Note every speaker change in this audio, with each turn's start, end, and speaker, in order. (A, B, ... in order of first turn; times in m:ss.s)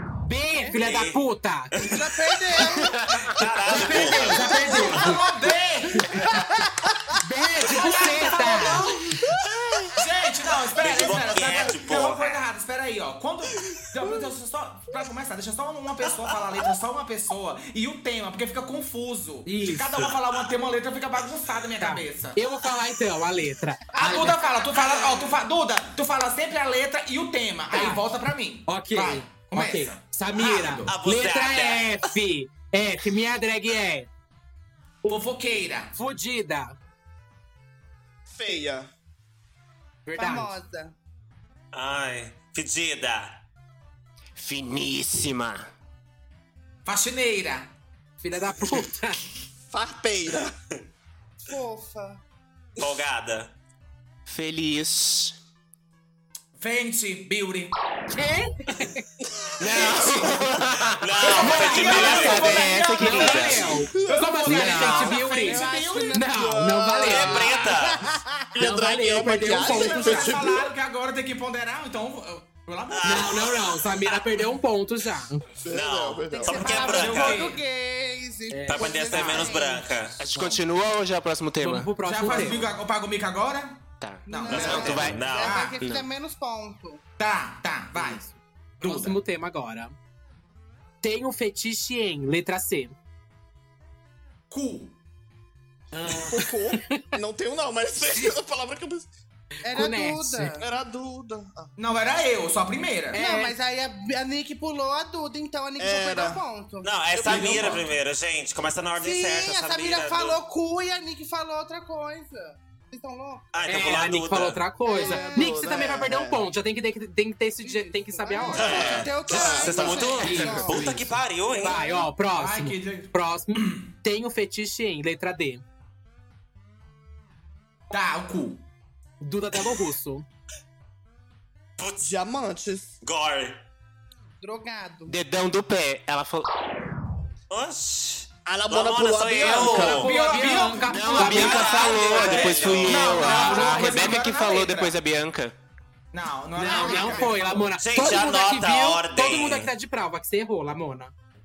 0:00.2-0:01.7 A
0:00.8-0:01.2 B
0:01.7-0:05.2 B
0:01.8-0:03.0 C
0:02.8-0:03.4 D
0:03.4-0:05.2 A
0:04.0-0:04.9 C
0:04.0-0:06.1 E
0:06.1-0:06.7 C
0:07.2-0:09.0 A
0:07.6-0:09.1 E
0:09.4-0:10.0 F
0:09.9-0:22.4 E
0:10.8-0:12.4 B
0:19.4-0:20.2 A
0:21.8-0:24.4 A
0:24.0-0:31.0 E
0:27.7-0:28.0 A
0:28.7-0:34.1 A
0:30.9-0:32.1 B
0:35.1-0:35.9 E
0:35.9-0:36.8 A
0:38.3-0:38.9 F
0:40.1-0:40.5 A
0:40.2-0:41.0 C
0:41.7-0:43.4 B
0:44.4-0:45.7 D
0:46.9-0:47.7 E
0:48.2-0:49.2 A
0:49.7-0:50.5 F
0:51.5-0:52.2 C
0:52.8-0:53.5 B
0:54.3-0:55.4 D
0:56.6-0:57.7 E
0:58.1-0:59.0 A
0:59.6-1:03.9 D
1:00.9-1:02.6 B
1:01.2-1:06.3 E
1:01.4-1:07.6 A
1:03.9-1:04.5 F
1:04.8-1:06.3 C
1:06.3-1:07.6 F
1:07.0-1:08.0 B
1:07.2-1:08.5 C
1:08.5-1:10.7 F
1:08.6-1:10.4 A
1:09.4-1:13.5 E
1:12.9-1:14.5 B
1:13.0-1:15.4 A
1:15.6-1:16.9 F
1:15.7-1:17.5 B
1:16.2-1:20.2 C
1:16.8-1:17.6 E
1:18.5-1:19.0 A
1:18.7-1:20.2 B
1:19.1-1:19.5 E
1:20.2-1:21.9 D
1:20.3-1:20.7 E
1:21.6-1:22.7 A
1:21.9-1:25.8 E
1:24.0-1:26.1 D
1:24.3-1:27.0 C
1:24.5-1:25.6 B
1:27.2-1:28.2 E
1:28.0-1:30.0 A
1:28.8-1:29.2 E
1:31.0-1:33.0 A
1:34.5-1:35.0 E
1:35.9-1:37.1 A
1:36.1-1:39.1 F
1:38.1-1:38.4 A
1:39.6-1:40.7 C
1:39.7-1:40.6 A
1:40.6-1:41.7 F
1:41.8-1:43.5 E
1:43.1-1:47.7 C
1:45.8-1:46.4 F
1:46.8-1:50.4 B
1:47.2-1:47.9 E
1:49.0-1:53.9 C
1:53.5-1:54.6 B
1:53.7-2:05.6 A
1:54.9-1:55.7 C
1:55.0-1:56.5 F
1:57.6-2:01.0 C
1:58.5-2:01.8 B
1:58.8-2:00.0 F
2:01.8-2:02.0 C
2:02.3-2:03.9 E
2:07.9-2:08.6 E
2:09.2-2:10.2 A
2:11.8-2:12.2 B
2:12.0-2:12.9 F
2:13.0-2:13.6 B
2:14.4-2:15.2 C
2:15.1-2:16.5 D
2:17.5-2:20.2 B
2:18.5-2:20.1 F
2:19.4-2:25.0 E
2:19.7-2:24.4 A
2:20.9-2:25.6 D
2:21.3-2:23.6 B
2:26.1-2:27.8 E
2:26.6-2:31.1 A
2:27.8-2:29.7 B